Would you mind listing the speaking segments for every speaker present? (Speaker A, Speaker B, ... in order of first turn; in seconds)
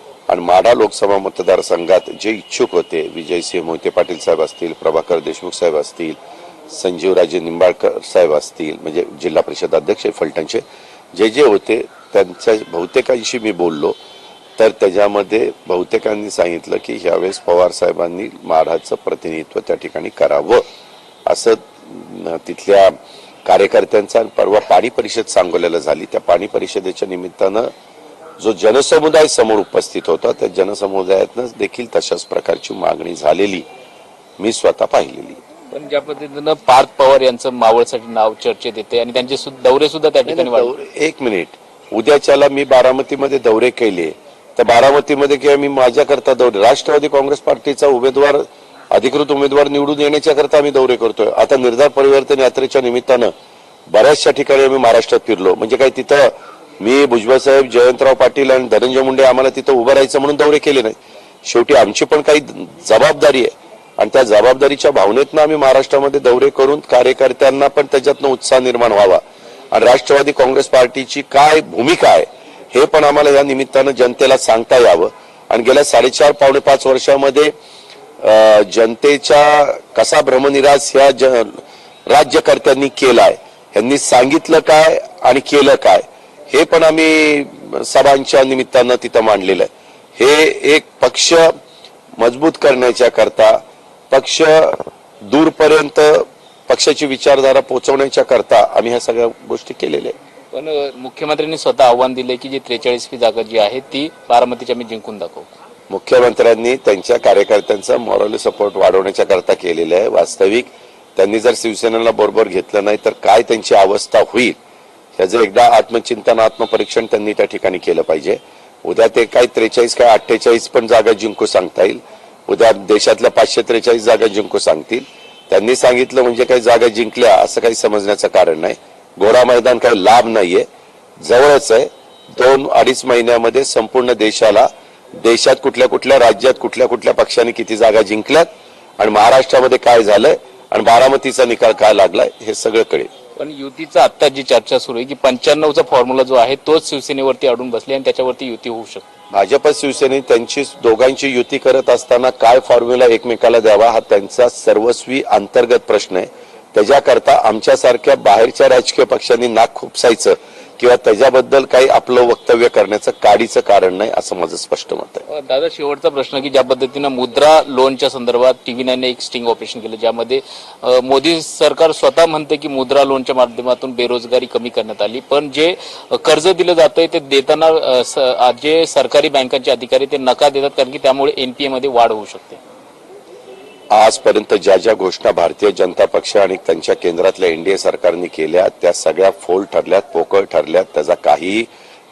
Speaker A: 0.3-10.6, 11.1-14.0, 14.6-20.6, 21.3-27.7, 28.4-33.7, 34.4-35.4, 40.3-53.3, 53.9-77.5, 78.2-91.5, 92.2-100.2, 105.9-114.6, 115.2-130.7, 131.2-143.1, 149.3-165.2, 183.9-191.7
Speaker B: 35.7-40.7, 100.5-105.5, 143.4-149.0, 165.3-182.6